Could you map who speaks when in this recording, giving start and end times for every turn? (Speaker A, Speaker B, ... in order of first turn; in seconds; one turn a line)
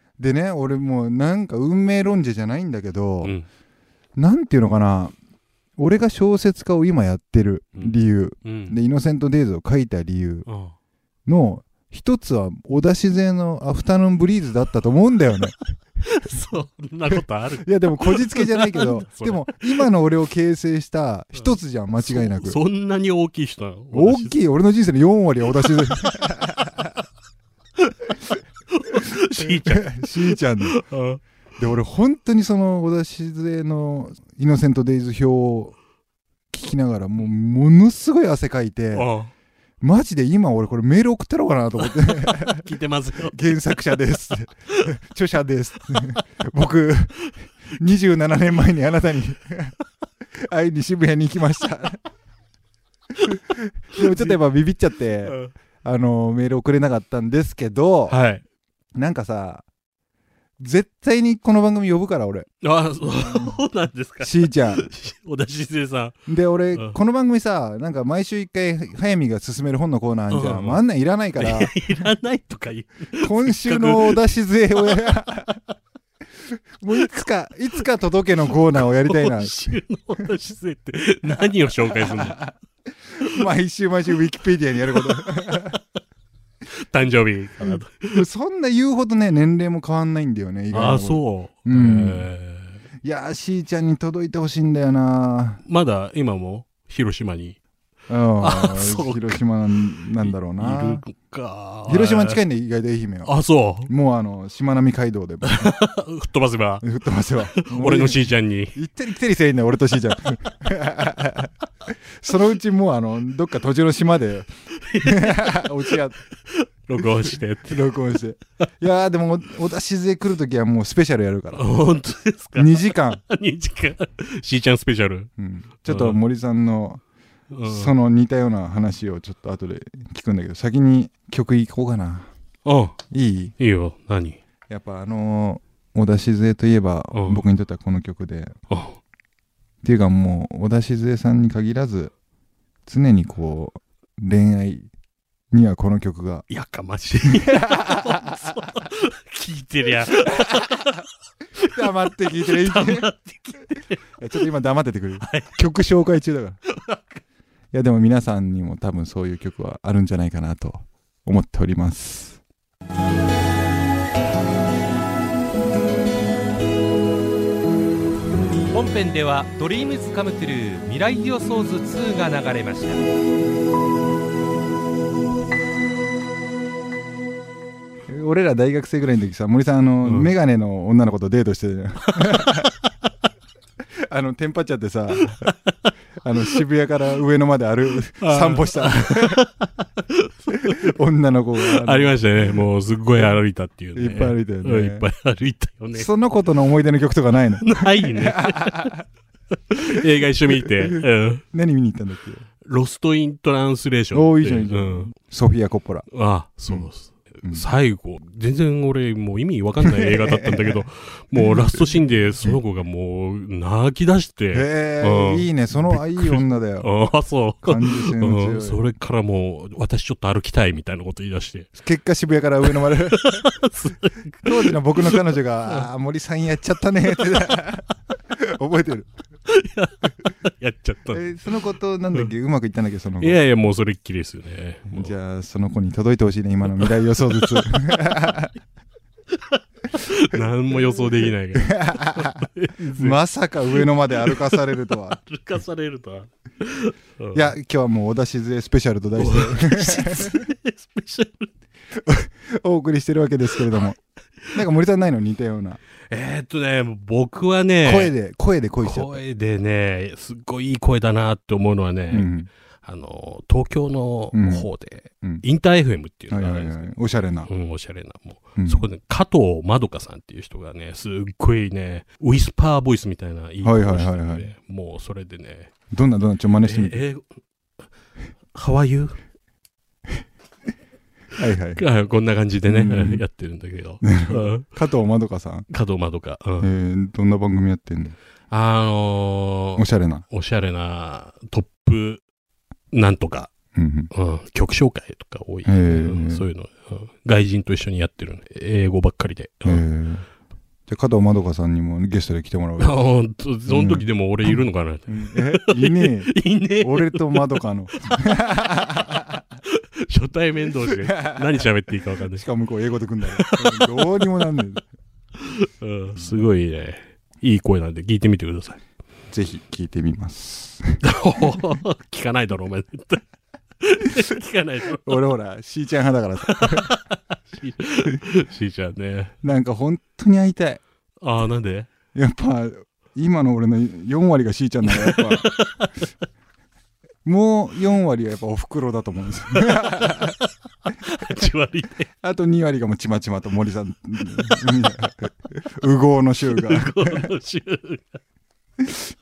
Speaker A: 0.2-3.4
Speaker A: 4.2-5.1
Speaker A: 5.8-10.4
Speaker B: 7.7-8.8
Speaker B: 10.4-10.7
Speaker A: 11.2-15.6
Speaker B: 16.0-19.9
Speaker A: 17.6-22.6
Speaker B: 21.4-24.4
Speaker A: 23.9-26.9
Speaker B: 25.6-26.1
Speaker B: 28.7-31.2
Speaker A: 29.4-30.8
Speaker A: 31.6-35.8
Speaker A: 36.5-39.1
Speaker B: 38.9-39.3
Speaker A: 39.8-42.7
Speaker B: 41.8-43.8
Speaker A: 43.3-49.7
Speaker A: 50.4-52.0
Speaker A: 53.3-58.2
Speaker B: 54.0-54.4
Speaker B: 55.2-55.5
Speaker B: 58.1-58.4
Speaker A: 58.9-59.6
Speaker A: 60.6-62.5
Speaker B: 62.6-66.2
Speaker A: 63.1-63.6
Speaker A: 64.2-64.9
Speaker A: 66.3-71.8
Speaker B: 70.3-70.8
Speaker B: 71.3-74.2
Speaker A: 73.2-75.6
Speaker B: 74.8-75.0
Speaker A: 76.8-79.8
Speaker B: 78.8-82.4
Speaker A: 81.7-82.5
Speaker A: 83.1-85.8
Speaker B: 84.9-85.8
Speaker B: 86.7-88.2
Speaker A: 87.6-92.3
Speaker B: 90.7-92.8
Speaker A: 93.0-95.6
Speaker B: 95.7-97.6
Speaker A: 98.1-101.0
Speaker B: 98.4-99.4
Speaker B: 100.0-102.4
Speaker A: 101.9-103.3
Speaker B: 103.2-103.9
Speaker A: 103.9-105.7
Speaker B: 105.4-106.8
Speaker A: 106.8-111.5
Speaker B: 107.5-108.8
Speaker A: 112.2-116.2
Speaker B: 114.8-117.9
Speaker A: 117.0-121.8
Speaker B: 121.5-125.3
Speaker A: 122.5-123.2
Speaker A: 125.4-127.0
Speaker B: 125.9-126.2
Speaker B: 127.5-127.9
Speaker A: 127.6-132.3
Speaker B: 132.6-133.0
Speaker A: 133.1-133.5
Speaker B: 133.6-134.4
Speaker A: 134.7-138.5
Speaker B: 137.1-137.4
Speaker B: 138.7-139.0
Speaker A: 139.8-142.1
Speaker A: 142.8-144.9
Speaker A: 145.5-146.4
Speaker B: 146.5-151.0
Speaker A: 147.3-148.4
Speaker A: 150.2-150.7
Speaker B: 151.6-154.0
Speaker A: 151.6-153.1
Speaker A: 154.2-156.6
Speaker B: 155.2-155.6
Speaker B: 156.7-157.2
Speaker A: 157.7-162.4
Speaker C: 168.7-173.0
Speaker A: 178.1-182.7
Speaker B: 180.0-180.3
Speaker B: 182.3-182.7
Speaker A: 184.1-185.5
Speaker A: 186.2-189.4
Speaker B: 188.2-190.9
Speaker A: 190.5-192.7
Speaker B: 191.6-196.1
Speaker A: 193.9-195.1
Speaker A: 195.9-199.0
Speaker B: 197.6-199.0
Speaker B: 199.5-201.4
Speaker A: 201.5-202.4
Speaker B: 202.6-205.1
Speaker A: 204.1-206.1
Speaker B: 206.1-221.7
Speaker A: 209.8-210.8
Speaker A: 214.5-216.9
Speaker A: 217.6-218.8
Speaker A: 221.8-223.4
Speaker B: 223.1-225.2
Speaker A: 224.4-229.1
Speaker B: 229.5-231.5
Speaker A: 231.1-233.4
Speaker B: 233.2-235.1
Speaker A: 234.9-238.5
Speaker B: 236.8-238.0
Speaker B: 239.5-243.2
Speaker A: 241.5-245.2
Speaker B: 243.7-247.4
Speaker A: 247.3-250.4
Speaker B: 249.2-251.5
Speaker A: 252.0-254.0
Speaker A: 254.5-255.8
Speaker B: 256.1-258.1
Speaker A: 257.8-259.2
Speaker B: 258.8-262.3
Speaker A: 262.1-262.5
Speaker B: 262.8-266.9
Speaker A: 264.3-264.7
Speaker A: 266.3-267.5
Speaker B: 267.5-275.7
Speaker A: 268.6-268.9
Speaker A: 273.6-274.5
Speaker A: 275.9-277.0
Speaker B: 276.6-277.3
Speaker B: 278.5-279.2
Speaker A: 281.4-281.8
Speaker B: 281.8-284.6
Speaker A: 282.7-283.2
Speaker A: 284.0-285.7
Speaker B: 285.7-286.7
Speaker A: 286.6-288.1
Speaker B: 288.5-292.2
Speaker A: 289.8-290.2
Speaker B: 292.9-293.5
Speaker A: 293.7-294.1
Speaker B: 294.1-299.8
Speaker A: 295.6-296.4
Speaker A: 299.6-300.2
Speaker A: 300.9-303.0
Speaker B: 302.8-307.6
Speaker A: 303.7-309.4
Speaker B: 309.6-312.4
Speaker A: 310.8-311.7
Speaker A: 312.3-314.8
Speaker B: 313.3-314.0
Speaker B: 315.4-318.8
Speaker A: 316.2-316.5
Speaker A: 319.3-321.0
Speaker B: 321.0-323.2
Speaker B: 323.8-325.2
Speaker A: 325.0-326.9
Speaker B: 326.5-329.3
Speaker A: 329.4-330.8
Speaker B: 331.2-331.9
Speaker A: 332.1-335.5
Speaker B: 334.9-335.9
Speaker A: 337.2-340.4
Speaker B: 339.6-340.4
Speaker B: 341.0-342.1
Speaker A: 342.2-347.3
Speaker B: 346.5-348.2